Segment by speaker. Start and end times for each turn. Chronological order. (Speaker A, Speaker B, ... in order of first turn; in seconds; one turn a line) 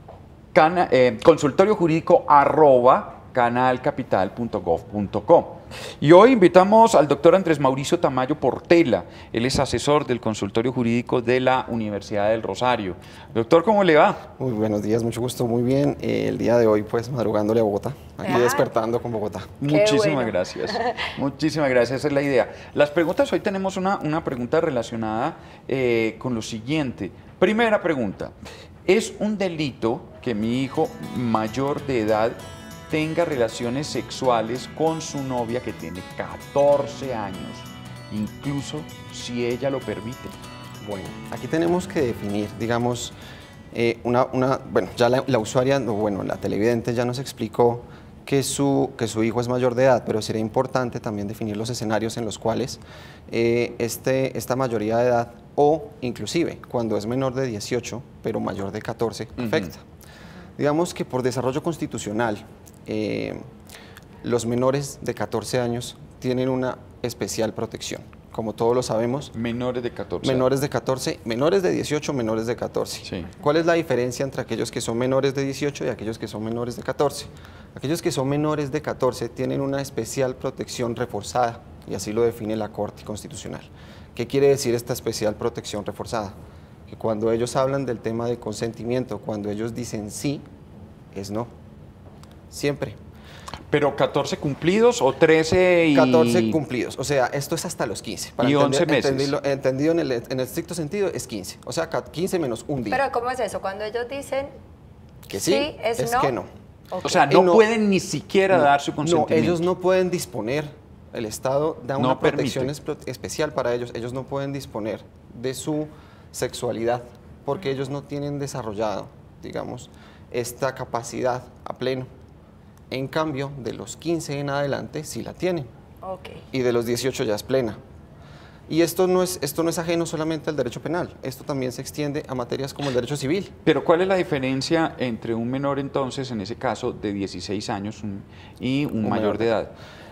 Speaker A: 0.5-14.2
Speaker B: 14.4-19.6
Speaker C: 18.2-18.7
Speaker A: 19.6-40.4
Speaker C: 19.7-21.0
Speaker B: 40.8-43.1
Speaker B: 43.7-59.8
Speaker B: 60.6-63.4
Speaker B: 64.2-69.3
Speaker A: 69.3-70.5
Speaker B: 70.2-86.3
Speaker A: 73.0-73.3
Speaker B: 86.9-90.4
Speaker B: 91.1-91.5
Speaker B: 92.5-93.0
Speaker A: 93.7-96.6
Speaker B: 95.9-103.0
Speaker A: 98.4-99.3
Speaker C: 102.9-104.5
Speaker B: 105.3-106.5
Speaker C: 105.3-106.3
Speaker C: 106.9-107.2
Speaker A: 107.0-109.7
Speaker B: 107.1-107.6
Speaker B: 108.5-122.1
Speaker A: 112.0-112.7
Speaker B: 122.9-125.7
Speaker C: 126.0-126.4
Speaker B: 126.5-127.8
Speaker B: 128.7-133.5
Speaker A: 133.6-139.7
Speaker B: 139.0-139.6